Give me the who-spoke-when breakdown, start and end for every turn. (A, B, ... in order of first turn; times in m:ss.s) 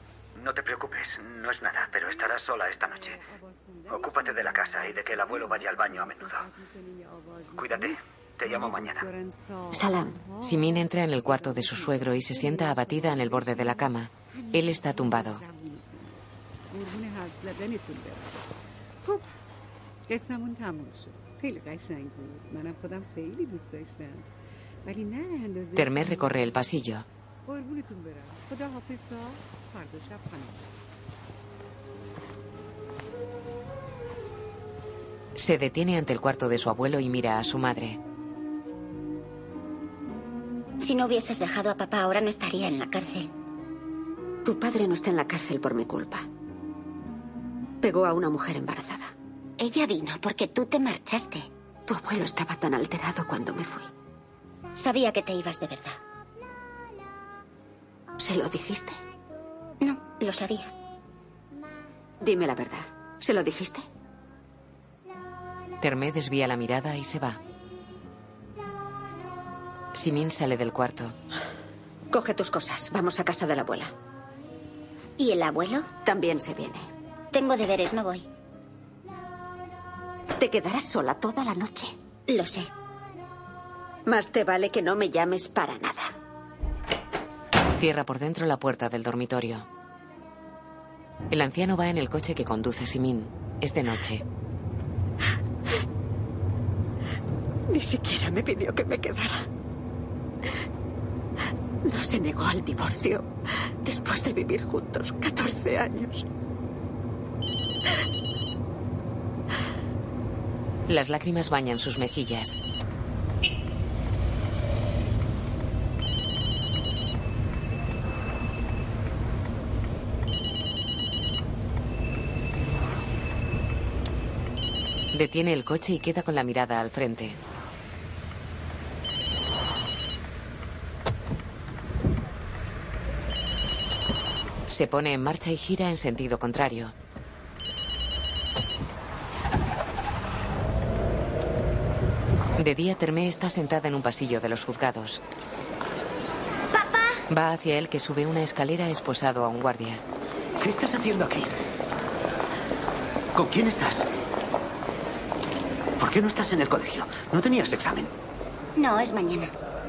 0:00.4-0:03.2 A
0:01.9-0:18.4 B
0:03.9-0:06.4 A
0:07.5-0:09.1 A
0:09.7-0:10.2 C
0:10.4-0:15.4 D
0:20.1-0:24.2 B
0:24.8-0:26.9 B
0:25.8-0:27.0 D
0:27.4-0:30.7 B
0:35.4-0:38.0 D
0:40.8-0:43.3 E
0:44.4-0:46.2 C
0:47.8-0:49.1 C
0:49.6-0:51.5 E
0:51.9-0:53.9 C
0:54.7-0:56.0 E
0:58.2-0:59.0 C
0:59.8-1:00.7 E
1:02.2-1:03.8 C
1:05.8-1:07.4 D
1:09.9-1:11.1 D
1:12.1-1:13.9 C
1:15.2-1:15.9 E
1:16.0-1:16.8 C
1:17.3-1:18.2 E
1:20.4-1:21.9 C
1:22.3-1:22.7 E
1:24.1-1:26.1 C
1:27.8-1:29.6 D
1:31.3-1:34.2 D
1:37.7-1:39.5 C
1:41.8-1:43.3 C
1:43.8-1:46.2 C
1:50.9-1:52.6 D
2:05.1-2:07.4 D
2:14.7-2:16.9 D
2:22.6-2:25.2 D
2:27.3-2:30.0 D
2:30.6-2:31.5 A
2:33.3-2:34.1 A
2:36.0-2:38.1 A
2:38.8-2:39.5 E